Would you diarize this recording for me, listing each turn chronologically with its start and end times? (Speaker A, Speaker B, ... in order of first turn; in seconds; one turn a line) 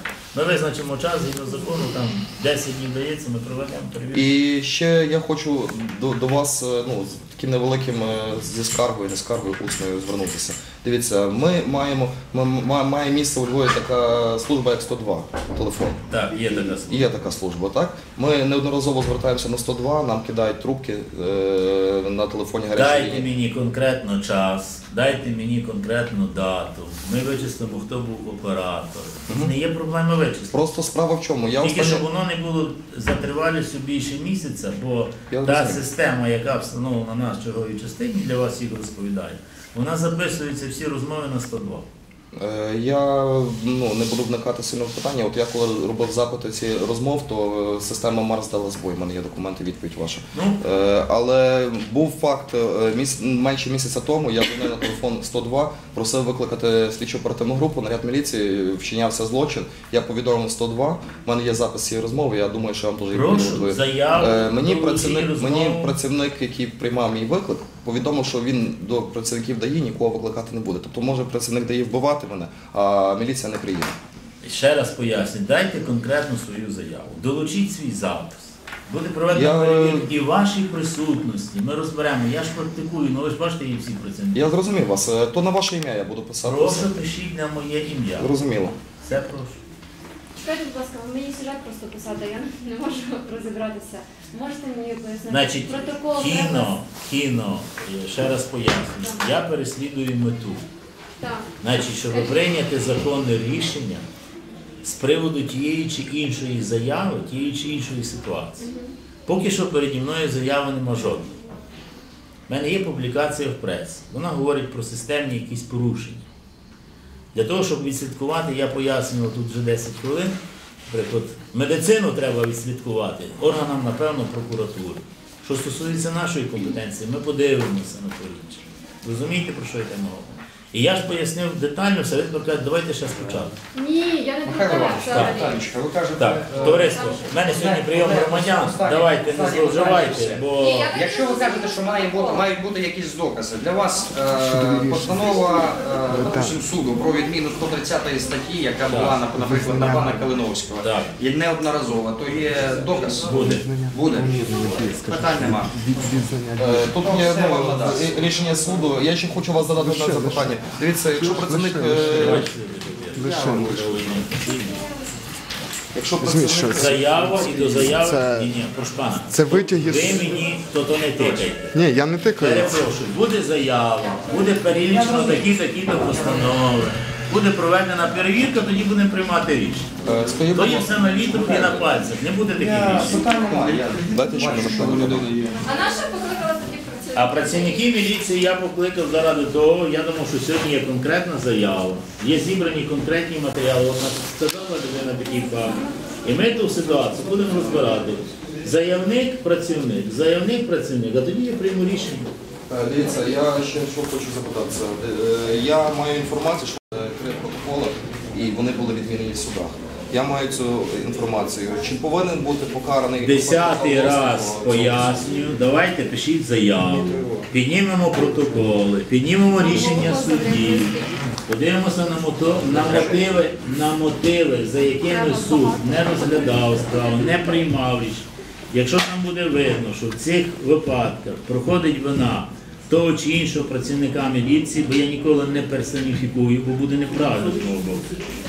Speaker A: 0.3-4.3
Speaker B: 4.1-16.0
Speaker A: 16.1-17.1
Speaker B: 16.8-23.2
Speaker A: 22.7-30.5
Speaker B: 29.3-29.5
Speaker B: 30.5-32.0
Speaker A: 31.6-41.9
Speaker B: 35.3-35.8
Speaker B: 42.3-74.0
Speaker A: 50.3-50.6
Speaker A: 63.1-66.0
Speaker A: 74.4-84.5
Speaker B: 79.3-80.1
Speaker B: 84.3-86.9
Speaker A: 86.4-88.3
Speaker B: 88.2-88.8
Speaker A: 89.0-89.6
Speaker C: 90.3-96.7
Speaker A: 95.3-100.6
Speaker C: 101.2-101.5
Speaker A: 101.6-104.0
Speaker A: 104.8-108.7
Speaker C: 108.6-108.9
Speaker A: 109.2-111.3
Speaker A: 112.5-116.2
Speaker A: 117.3-120.4
Speaker A: 120.9-133.5
Speaker C: 133.7-135.6
Speaker D: 134.4-155.8
Speaker A: 135.0-135.4
Speaker A: 136.2-140.9
Speaker C: 136.7-137.4
Speaker C: 140.6-142.4
Speaker E: 144.3-145.3
Speaker C: 145.3-146.0
Speaker E: 146.0-146.6
Speaker A: 148.9-149.2
Speaker E: 149.2-150.3
Speaker A: 150.8-151.1
Speaker A: 153.0-153.7
Speaker E: 153.2-157.1
Speaker A: 154.4-154.7
Speaker B: 156.6-162.5
Speaker D: 157.0-158.2
Speaker E: 159.5-162.5
Speaker A: 161.9-164.8
Speaker E: 163.1-163.9
Speaker D: 163.1-164.2
Speaker B: 165.9-167.7
Speaker E: 166.2-168.6
Speaker A: 166.7-171.7
Speaker E: 169.2-170.5
Speaker E: 171.7-172.9
Speaker A: 172.3-179.9
Speaker C: 174.1-174.5
Speaker D: 174.9-176.5
Speaker B: 180.0-182.0
Speaker A: 180.5-183.3
Speaker B: 182.5-185.3
Speaker D: 183.0-185.6
Speaker E: 184.2-185.5
Speaker C: 185.6-187.8
Speaker A: 187.1-202.3
Speaker B: 202.7-215.3
Speaker A: 213.2-238.1
Speaker D: 217.0-217.5
Speaker C: 219.5-221.2
Speaker B: 222.6-223.3
Speaker C: 225.0-227.6